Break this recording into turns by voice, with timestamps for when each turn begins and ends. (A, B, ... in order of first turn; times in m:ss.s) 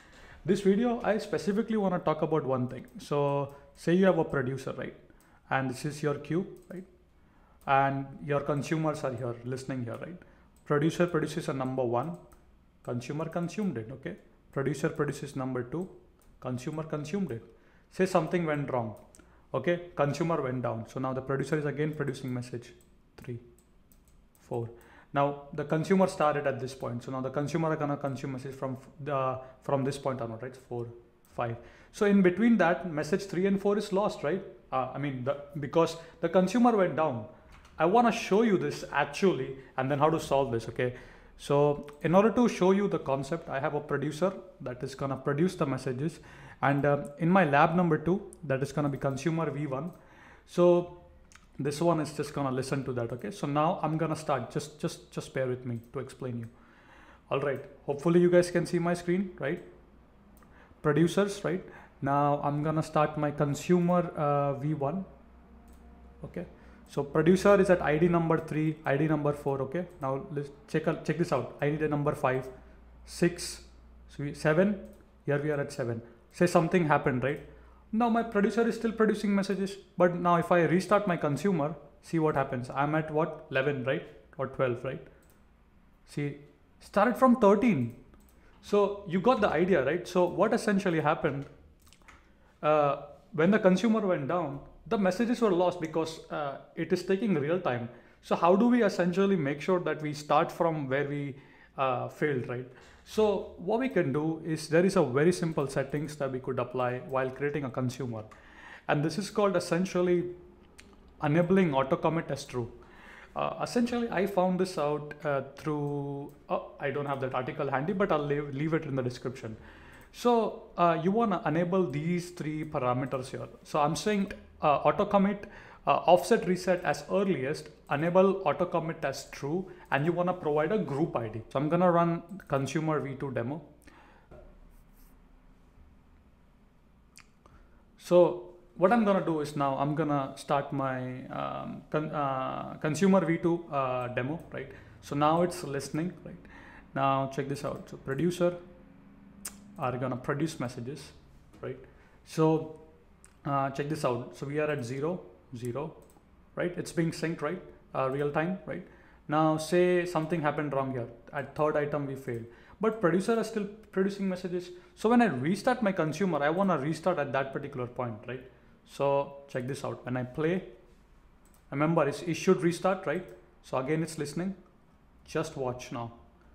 0:00.4-0:06.9 A
0:07.7-0:12.2 A
0:12.8-0:15.9 A
0:16.4-0:19.0 A
0:19.5-0:23.4 A
0:24.4-0:49.9 A
0:50.5-0:51.0 A
0:51.6-0:56.5 A
0:57.3-0:59.6 A
1:00.8-1:05.1 A
1:06.2-1:12.5 A
1:13.0-1:25.1 A
1:26.1-1:28.0 A
1:28.6-1:31.5 A
1:32.6-1:48.3 A
1:48.9-1:50.3 A
1:51.2-1:52.7 A
1:53.4-1:59.6 A
2:00.1-2:13.6 A
2:18.0-2:28.6 A
2:29.8-2:32.8 A
2:33.4-2:36.0 A
2:36.6-2:50.7 A
2:51.7-2:54.6 A
2:55.2-2:56.2 A